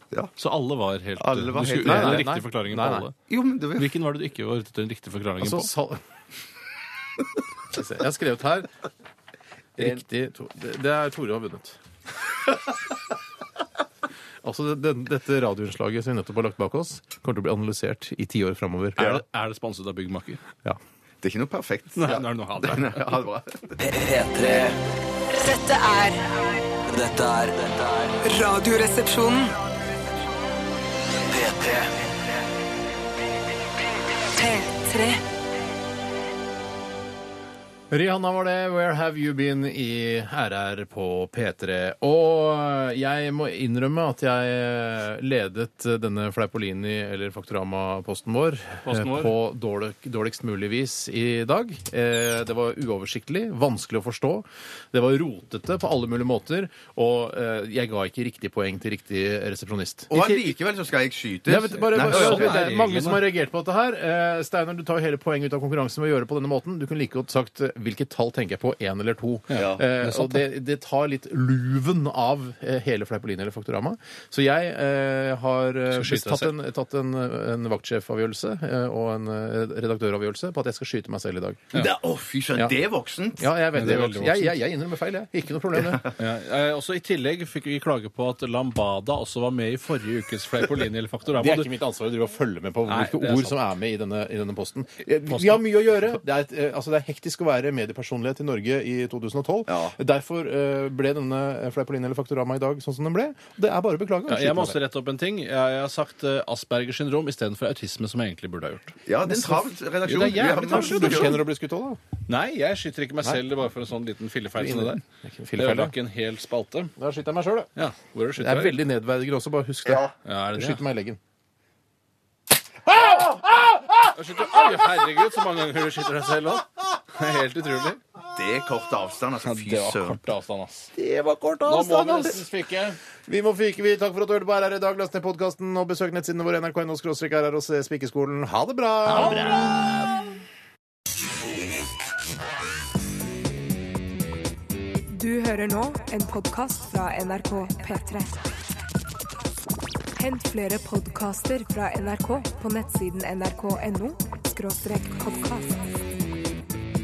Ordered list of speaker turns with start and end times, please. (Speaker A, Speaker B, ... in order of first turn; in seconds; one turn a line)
Speaker A: 0.4-3.2
Speaker B: 1.2-2.3
Speaker C: 1.8-3.1
Speaker B: 3.3-3.9
Speaker A: 3.8-5.7
Speaker C: 5.4-6.0
Speaker C: 7.7-8.7
Speaker C: 9.8-11.8
Speaker C: 14.4-19.2
Speaker A: 19.0-20.4
Speaker B: 21.2-23.8
Speaker A: 22.0-23.2
Speaker D: 23.8-24.8
Speaker E: 25.3-26.3
Speaker D: 26.9-28.2
Speaker E: 28.2-29.6
Speaker D: 31.1-32.1
Speaker E: 34.4-35.2
Speaker C: 37.9-60.5
Speaker A: 48.9-49.3
Speaker B: 60.1-62.6
Speaker C: 61.5-81.7
Speaker A: 61.9-63.2
Speaker A: 69.5-70.5
Speaker B: 69.5-69.8
Speaker A: 75.9-76.5
Speaker B: 81.7-83.5
Speaker C: 83.4-86.1
Speaker A: 83.7-84.6
Speaker B: 85.8-86.1
Speaker A: 86.2-91.7
Speaker C: 91.3-104.8
Speaker A: 92.9-93.6
Speaker A: 95.3-95.6
Speaker B: 99.7-100.0
Speaker A: 104.3-109.0
Speaker B: 109.1-111.4
Speaker C: 109.3-112.0
Speaker A: 110.0-111.5
Speaker A: 112.3-115.0
Speaker C: 114.6-115.9
Speaker A: 115.6-116.9
Speaker C: 117.0-117.7
Speaker A: 117.8-118.8
Speaker C: 118.4-121.2
Speaker A: 120.2-120.8
Speaker C: 122.9-125.0
Speaker A: 124.1-128.0
Speaker B: 128.3-130.2
Speaker A: 129.4-130.9
Speaker C: 130.9-132.4
Speaker A: 131.6-133.0
Speaker C: 133.3-140.3
Speaker B: 139.1-140.1
Speaker E: 145.1-148.4
Speaker E: 150.2-155.9